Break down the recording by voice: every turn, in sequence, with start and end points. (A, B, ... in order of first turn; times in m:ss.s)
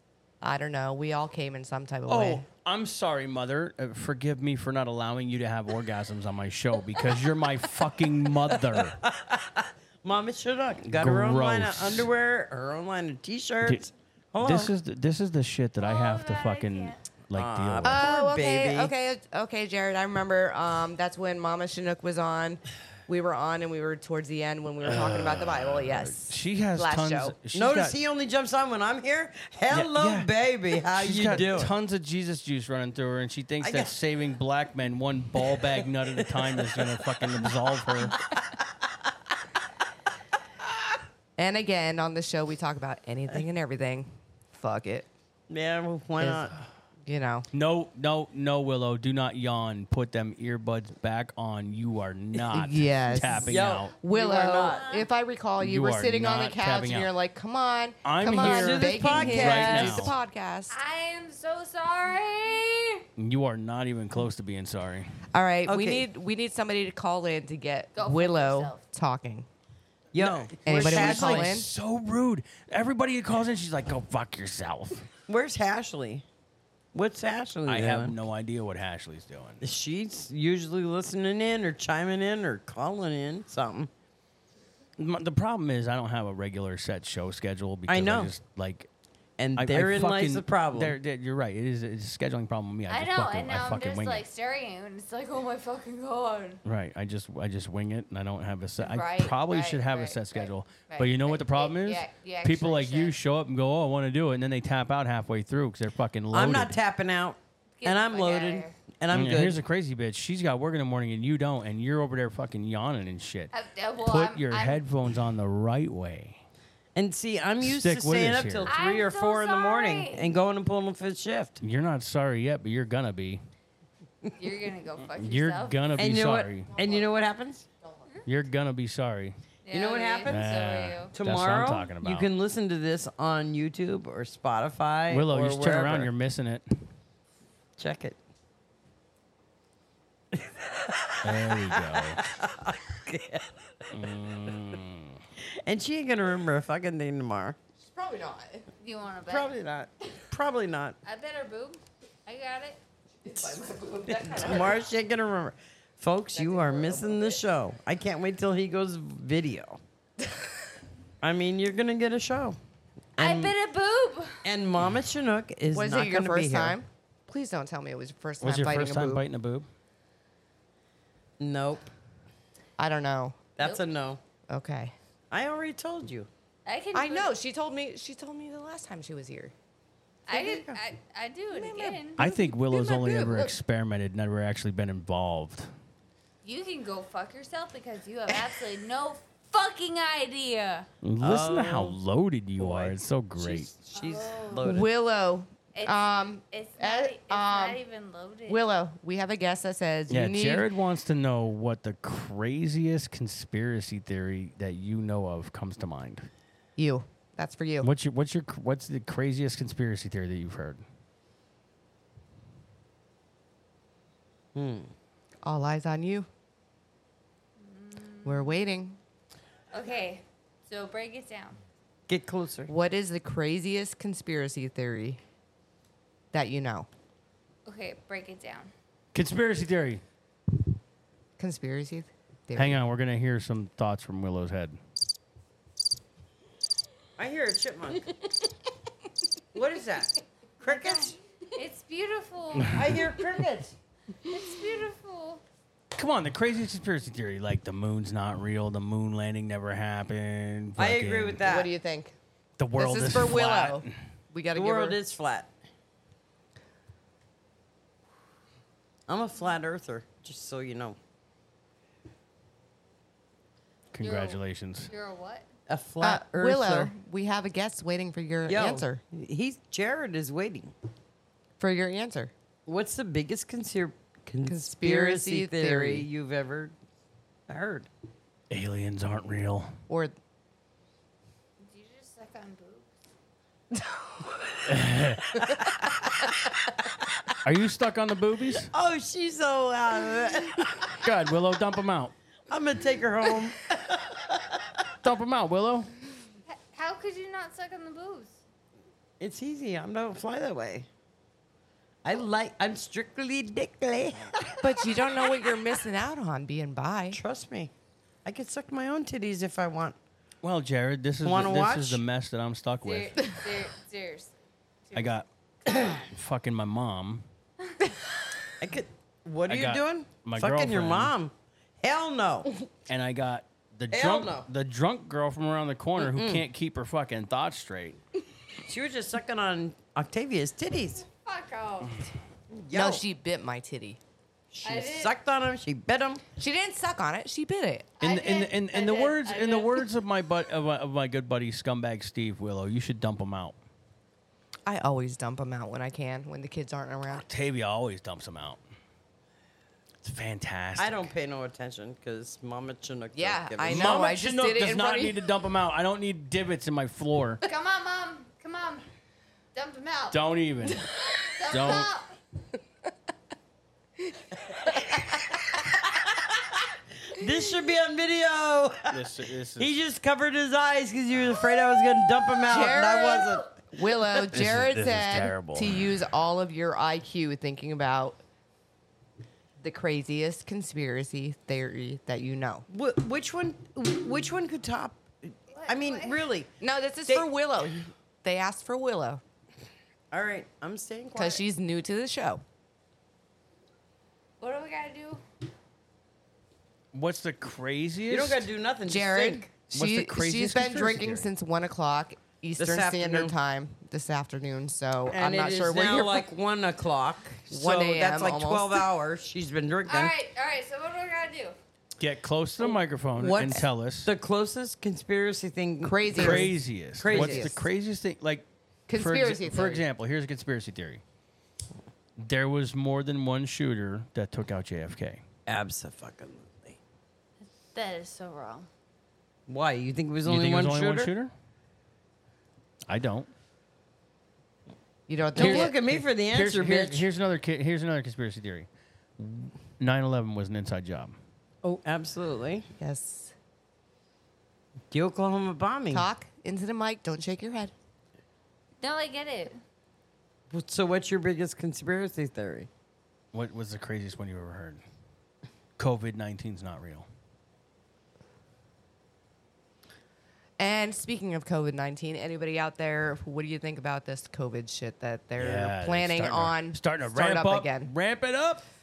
0:00.4-0:02.4 A
0:02.1-0:09.0 B
0:08.5-0:14.7 C
0:11.0-0:12.1 B
0:14.4-0:18.1 B
0:15.8-0:17.0 D
0:17.3-0:18.9 C
0:17.8-0:27.3 A
0:24.8-0:28.0 B
0:27.5-0:31.7 C
0:29.7-0:30.3 B
0:30.9-0:38.2 B
0:33.6-0:33.9 C
0:36.2-0:36.9 C
0:41.4-0:45.1 A
0:45.5-0:46.5 C
0:46.2-0:46.5 A
0:47.0-0:47.5 A
0:47.5-0:53.9 B
0:52.5-0:53.5 A
0:53.4-0:54.9 C
0:54.0-1:00.8 A
0:54.7-0:55.1 D
0:55.6-0:57.1 B
0:58.0-1:00.1 B
0:58.3-1:00.1 C
1:00.7-1:03.0 D
1:03.2-1:05.1 B
1:05.3-1:09.5 A
1:05.6-1:06.0 C
1:08.0-1:08.8 D
1:10.1-1:11.5 C
1:10.2-1:15.0 B
1:10.6-1:11.7 A
1:15.3-1:16.2 C
1:16.9-1:18.1 C
1:17.7-1:19.6 B
1:19.6-1:23.9 C
1:25.0-1:28.9 B
1:27.9-1:28.3 C
1:29.4-1:31.0 C
1:29.6-1:34.2 B
1:32.9-1:36.6 D
1:36.6-1:46.7 B
1:38.8-1:43.2 D
1:46.3-1:49.6 C
1:47.8-1:48.8 D
1:49.1-1:53.5 B
1:53.5-1:54.8 D
1:54.0-1:56.4 B
1:56.9-2:01.6 C
1:57.6-1:58.7 B
1:58.7-2:00.3 D
2:01.6-2:03.4 B
2:04.4-2:05.8 D
2:05.1-2:06.7 B
2:06.0-2:07.6 C
2:06.7-2:07.1 A
2:08.2-2:09.4 B
2:09.6-2:11.1 D
2:09.7-2:10.6 C
2:10.2-2:12.3 B
2:11.1-2:16.1 C
2:15.1-2:16.6 B
2:17.8-2:18.2 C
2:20.3-2:23.9 C
2:21.2-2:22.2 B
2:23.9-2:25.2 B
2:25.4-2:27.6 C
2:27.8-2:28.7 A
2:28.8-2:29.5 D
2:29.3-2:31.0 C
2:31.0-2:32.8 D
2:33.2-2:34.8 A
2:34.1-2:39.8 C
2:36.4-2:37.4 A
2:41.2-2:42.6 C
2:43.2-2:43.5 C
2:43.2-2:44.4 D
2:44.4-2:46.8 C
2:45.7-2:49.2 A
2:48.4-2:49.7 B
2:51.4-2:51.9 C
2:52.8-2:53.4 A
2:53.6-2:54.2 C
2:54.5-2:54.9 A
2:55.3-2:56.3 C
2:56.6-2:57.3 D
2:56.9-2:59.5 A
3:00.3-3:02.3 D
3:00.3-3:00.8 C
3:01.6-3:03.4 A
3:02.2-3:05.7 B
3:06.4-3:10.8 D
3:11.0-3:13.7 B
3:11.2-3:12.0 C
3:12.6-3:14.9 C
3:13.9-3:14.7 D
3:14.6-3:17.8 A
3:15.7-3:18.6 D
3:18.5-3:20.6 A
3:20.1-3:26.3 B
3:26.8-3:27.9 A
3:27.8-3:30.8 B
3:34.5-3:34.9 C
3:35.4-3:36.3 A
3:37.6-3:38.6 D
3:38.2-3:39.0 A
3:39.7-3:41.6 D
3:42.1-3:42.7 C
3:42.7-3:45.2 A
3:46.3-3:46.9 A
3:47.6-3:48.7 D
3:49.1-3:50.0 B
3:51.4-3:52.8 A
3:52.5-3:54.8 B
3:57.2-3:58.1 C
3:59.5-4:01.2 C
4:00.6-4:02.8 D
4:02.7-4:03.7 C
4:04.2-4:05.4 D
4:06.0-4:11.4 B
4:10.8-4:11.7 C
4:11.4-4:12.1 A
4:12.6-4:13.9 B
4:12.8-4:15.0 A
4:14.5-4:15.5 C
4:19.1-4:21.0 C
4:23.9-4:24.9 B
4:24.0-4:25.5 D
4:25.7-4:26.9 C
4:26.0-4:29.0 A
4:28.4-4:30.7 C
4:31.6-4:32.3 A
4:32.7-4:36.7 C
4:34.4-4:36.1 A
4:37.5-4:37.9 C
4:38.5-4:39.7 B
4:39.9-4:40.1 A
4:41.6-4:42.9 D
4:44.6-4:45.4 B
4:47.4-4:48.7 B
4:48.7-4:50.9 C
4:50.7-4:52.1 B
4:52.5-4:53.7 C
4:55.0-4:55.9 B
4:56.7-4:58.4 D
4:59.2-5:00.9 C
5:02.0-5:04.6 C
5:04.6-5:07.2 A
5:07.1-5:07.7 C
5:08.2-5:10.0 C
5:10.4-5:13.4 B
5:11.2-5:12.0 C
5:12.8-5:14.3 D
5:14.9-5:16.0 D
5:14.9-5:15.2 B
5:15.9-5:17.2 B
5:18.6-5:22.5 C
5:19.5-5:21.1 B
5:22.9-5:28.0 B
5:23.9-5:24.5 C
5:26.0-5:26.4 C
5:28.6-5:31.1 C
5:31.2-5:32.0 D
5:32.5-5:33.0 C
5:32.7-5:34.0 A
5:34.5-5:36.2 C
5:34.6-5:35.1 D
5:36.4-5:38.0 A
5:38.0-5:39.9 D
5:38.0-5:43.6 B
5:44.6-5:47.2 A
5:47.2-5:48.6 B
5:50.0-5:51.1 B
5:50.8-5:54.0 C
5:53.1-5:55.2 A
5:53.7-5:57.4 B
5:57.4-5:58.8 D
5:59.5-6:00.2 D
6:00.1-6:00.9 B
6:01.3-6:02.1 D
6:01.5-6:01.9 B
6:04.7-6:05.1 A
6:07.0-6:09.0 C
6:08.9-6:09.8 B
6:09.6-6:13.5 C
6:12.4-6:18.2 A
6:14.3-6:15.9 B
6:19.6-6:22.6 A
6:22.7-6:26.5 C
6:25.5-6:26.2 D
6:26.6-6:29.2 A
6:30.1-6:31.4 C
6:31.1-6:32.4 A
6:34.4-6:35.2 D
6:36.9-6:38.5 B
6:38.1-6:39.5 C
6:38.9-6:46.2 A
6:39.7-6:41.3 B
6:42.6-6:43.3 C
6:45.1-6:50.1 C
6:47.5-6:48.8 A
6:49.9-6:51.6 D
6:52.0-6:54.1 B
6:53.2-6:57.5 C
6:55.8-6:56.5 A
6:56.1-7:01.0 B
6:57.1-6:57.5 A
6:58.9-6:59.8 A
7:02.2-7:05.2 B
7:05.5-7:06.8 C
7:07.5-7:08.7 D
7:09.5-7:11.1 C
7:10.2-7:11.3 B
7:12.9-7:13.3 B
7:15.1-7:15.7 A
7:15.3-7:17.0 C
7:15.4-7:21.2 B
7:21.6-7:22.7 C
7:22.8-7:23.3 A
7:24.9-7:26.1 C
7:25.9-7:27.7 A
7:28.8-7:29.6 D
7:30.5-7:32.7 C
7:33.3-7:34.8 B
7:35.8-7:37.1 B
7:40.6-7:47.9 A
7:45.4-7:48.6 B